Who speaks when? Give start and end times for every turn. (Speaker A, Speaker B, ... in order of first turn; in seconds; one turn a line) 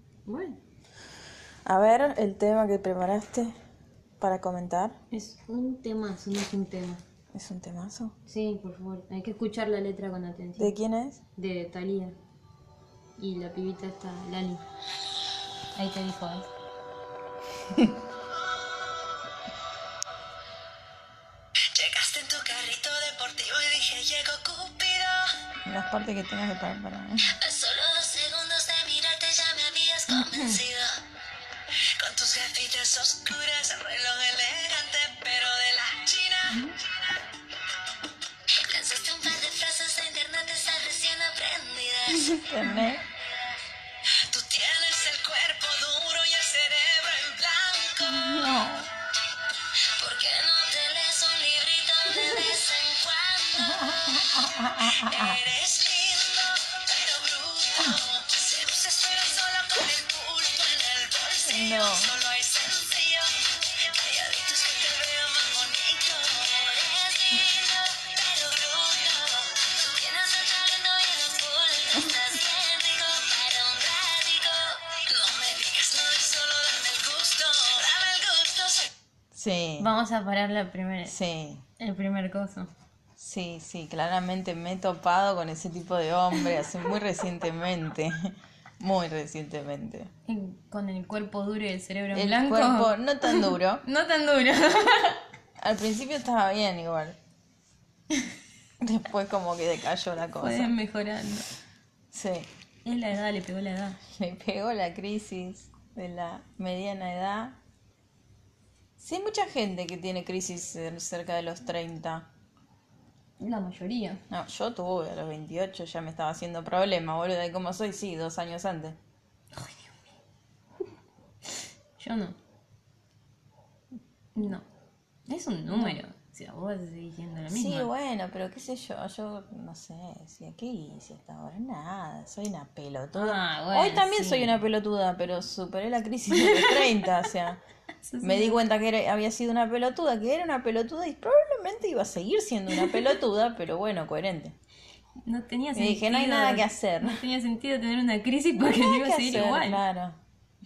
Speaker A: 0.3-0.6
Speaker B: 1.7-3.5
Speaker B: 4.2-5.0
Speaker A: 5.1-7.0
Speaker B: 7.3-8.1
Speaker A: 8.3-10.7
Speaker B: 10.6-11.2
Speaker A: 11.3-12.2
Speaker A: 13.2-14.6
Speaker A: 15.8-16.5
Speaker C: 21.7-25.4
Speaker B: 25.6-27.4
Speaker C: 27.4-31.0
Speaker C: 32.0-36.7
Speaker C: 38.6-42.4
Speaker B: 42.2-43.0
Speaker C: 44.2-48.3
Speaker B: 48.0-48.9
Speaker C: 50.0-53.9
Speaker B: 53.6-55.4
Speaker C: 55.0-78.9
Speaker B: 61.5-62.1
Speaker B: 79.3-79.9
Speaker A: 79.8-81.1
Speaker B: 81.1-81.6
Speaker A: 81.8-82.7
Speaker B: 83.2-90.1
Speaker A: 90.3-95.2
Speaker B: 92.1-93.8
Speaker B: 95.6-97.2
Speaker B: 98.8-100.7
Speaker A: 100.4-101.5
Speaker B: 102.1-102.5
Speaker A: 102.8-104.0
Speaker B: 104.0-107.6
Speaker B: 109.0-112.2
Speaker A: 113.4-114.2
Speaker B: 114.3-119.0
Speaker A: 119.5-119.9
Speaker A: 122.0-122.4
Speaker A: 124.3-124.6
Speaker A: 125.3-127.9
Speaker B: 125.7-126.0
Speaker B: 127.5-137.6
Speaker A: 133.2-134.6
Speaker A: 136.3-136.9
Speaker A: 138.0-138.6
Speaker B: 138.2-144.6
Speaker A: 145.2-149.8
Speaker B: 145.8-147.2
Speaker B: 148.6-150.2